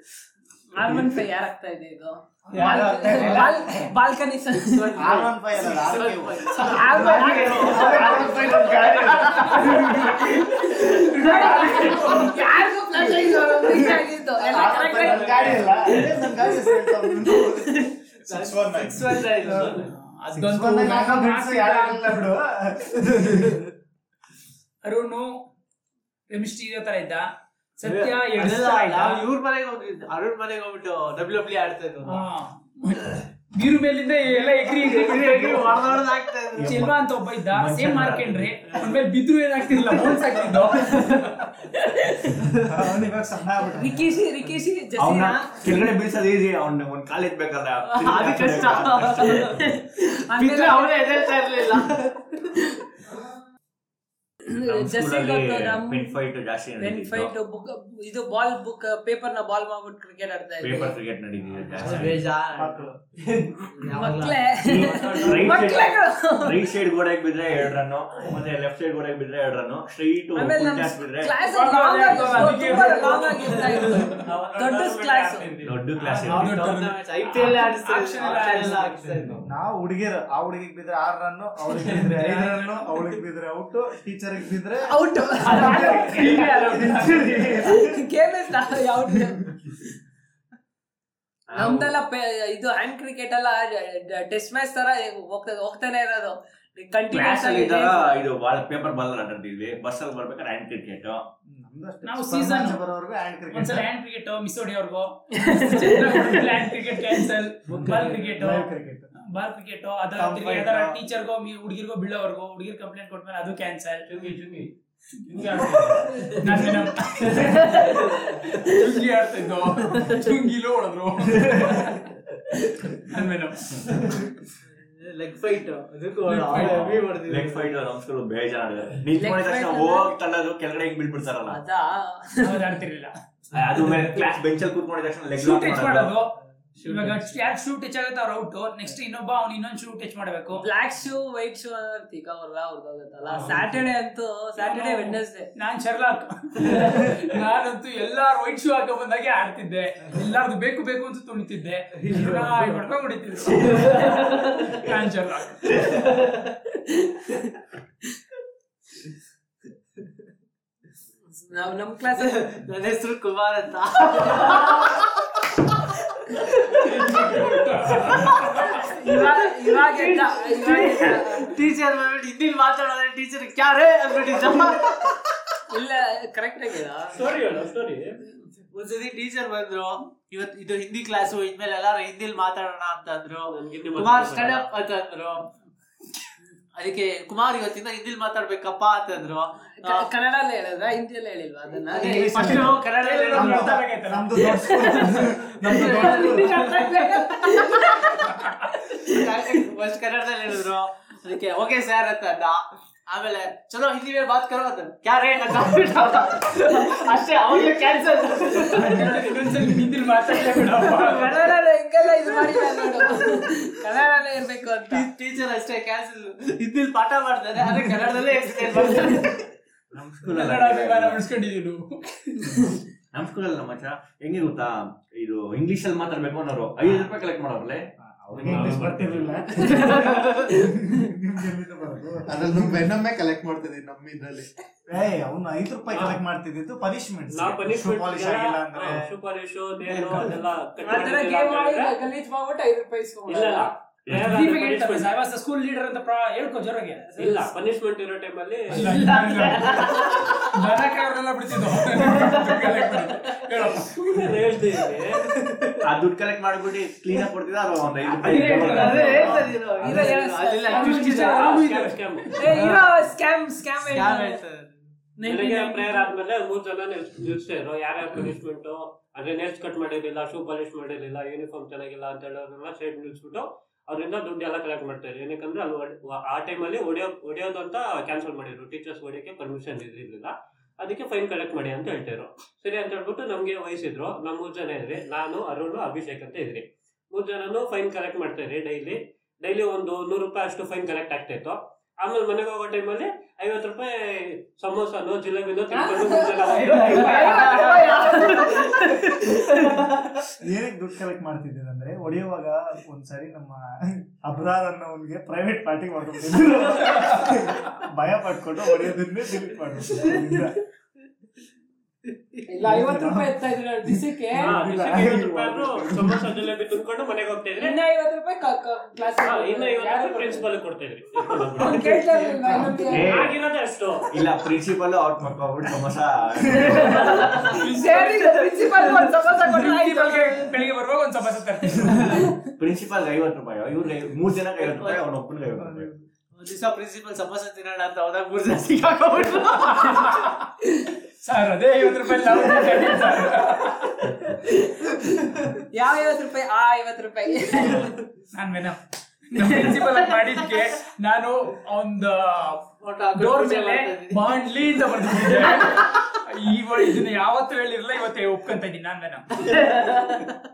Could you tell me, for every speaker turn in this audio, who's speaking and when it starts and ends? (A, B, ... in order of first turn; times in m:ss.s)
0:00.7-0:05.1 A
0:02.5-0:03.9 B
0:02.5-0:03.5 C
0:04.6-0:12.1 C
0:05.0-0:10.8 B
0:06.7-0:08.7 A
0:07.8-0:08.2 D
0:09.4-0:12.5 E
0:10.6-0:17.9 A
0:11.3-0:12.1 B
0:13.0-0:17.9 B
0:14.8-0:16.2 C
0:18.3-0:19.9 C
0:18.3-0:19.2 D
0:19.4-0:23.6 B
0:19.4-0:22.3 E
0:24.8-0:25.3 E
0:26.3-0:27.3 E
0:27.8-0:29.2 E
0:27.8-0:32.2 C
0:32.0-0:36.0 E
0:34.2-0:36.8 C
0:36.6-0:38.6 F
0:36.6-0:41.5 E
0:38.7-0:39.0 C
0:39.7-0:41.3 C
0:42.4-0:42.7 C
0:42.5-0:44.6 B
0:43.7-0:45.8 A
0:45.0-0:49.8 F
0:48.0-0:52.6 C
0:49.3-0:51.6 A
0:54.5-0:56.1 A
0:54.6-0:57.3 F
0:56.8-1:01.0 A
1:00.6-1:02.3 F
1:01.7-1:05.6 C
1:01.8-1:02.9 B
1:03.9-1:06.7 A
1:04.6-1:11.4 F
1:10.3-1:15.5 A
1:11.4-1:14.3 E
1:14.1-1:15.8 G
1:15.6-1:16.6 F
1:16.0-1:19.4 E
1:16.2-1:19.4 C
1:19.4-1:28.0 B
1:22.0-1:22.6 E
1:24.9-1:29.8 A
1:25.4-1:27.6 E
1:31.5-1:31.9 F
1:31.5-1:38.1 A
1:37.1-1:41.2 F
1:41.5-1:43.9 B
1:42.0-1:42.8 E
1:43.5-1:54.1 E
1:45.4-1:46.4 A
1:47.7-1:49.1 B
1:50.2-1:51.0 B
1:54.1-1:54.7 G
1:55.3-2:02.1 E
1:55.3-1:56.4 G
1:56.1-1:56.5 C
1:57.3-1:58.7 C
2:00.0-2:00.3 C
2:03.0-2:03.9 E
2:04.7-2:07.8 C
2:06.3-2:06.8 E
2:06.5-2:11.6 F
2:09.2-2:10.1 A
2:11.5-2:12.6 A
2:12.4-2:13.1 E
2:13.5-2:16.2 F
2:13.8-2:14.0 E
2:15.4-2:20.6 E
2:16.8-2:17.4 C
2:20.6-2:25.5 A
2:23.4-2:23.6 E
2:24.6-2:35.9 E
2:26.7-2:26.9 C
2:32.0-2:32.8 C
2:33.5-2:34.8 C
2:35.6-2:36.6 C
2:41.4-2:42.4 A
2:42.2-2:45.1 C
2:46.3-2:48.3 C
2:46.8-2:48.9 E
2:48.8-2:51.6 A
2:49.0-2:55.2 C
2:55.7-2:57.2 A
2:57.1-2:58.2 G
2:58.7-3:05.5 C
3:03.5-3:04.7 G
3:06.8-3:10.1 C
3:09.8-3:12.4 A
3:11.9-3:13.8 C
3:11.9-3:16.8 B
3:12.4-3:15.2 E
3:15.6-3:17.7 C
3:15.7-3:18.3 A
3:18.9-3:19.2 A
3:18.9-3:29.3 C
3:28.7-3:31.5 E
3:30.8-3:35.1 A
3:32.2-3:33.5 C
3:34.9-3:39.4 C
3:39.9-3:41.2 F
3:40.3-3:42.7 E
3:43.1-3:49.3 F
3:48.0-3:52.9 B
3:48.4-3:49.8 G
3:49.6-3:50.1 A
3:49.6-3:50.6 C
3:52.3-3:54.5 D
3:54.9-3:59.1 B
3:55.9-3:56.2 G
3:57.3-4:01.9 G
3:59.9-4:00.4 B
4:00.8-4:03.7 A
4:03.3-4:05.1 G
4:04.1-4:04.3 F
4:04.1-4:07.4 E
4:07.1-4:09.4 G
4:08.7-4:13.9 E
4:08.8-4:10.5 C
4:12.0-4:15.9 C
4:14.0-4:15.3 G
4:15.8-4:20.0 F
4:18.1-4:19.5 E
4:18.3-4:21.6 C
4:19.8-4:21.3 A
4:20.7-4:22.6 E
4:21.3-4:22.4 G
4:22.4-4:24.4 A
4:22.5-4:23.0 C
4:23.8-4:24.8 C
4:25.2-4:26.1 E
4:25.2-4:57.7 G
4:55.7-4:58.8 A
4:56.6-5:00.1 C
5:00.4-5:10.6 B
5:07.0-5:07.4 E
5:10.0-5:10.3 C
5:12.5-5:14.6 A
5:12.6-5:16.3 B
5:14.4-5:17.8 G
5:17.6-5:20.5 A
5:19.2-5:22.3 G
5:21.6-5:23.2 A
5:22.4-5:22.8 B
5:22.8-5:23.4 F
5:22.9-5:24.1 G
5:24.1-5:27.6 F
5:26.7-5:30.5 A
5:27.5-5:28.5 E
5:29.4-5:32.3 E
5:32.4-5:35.9 F
5:34.6-5:35.0 C
5:35.6-5:36.0 B
5:36.3-5:40.2 C
5:39.7-5:40.4 E
5:41.2-5:44.0 E
5:45.7-5:47.9 A
5:48.3-5:48.8 E
5:49.3-5:52.6 E
5:52.8-5:54.4 C
5:53.1-5:59.3 E
5:55.1-5:55.8 C
5:59.4-6:00.3 C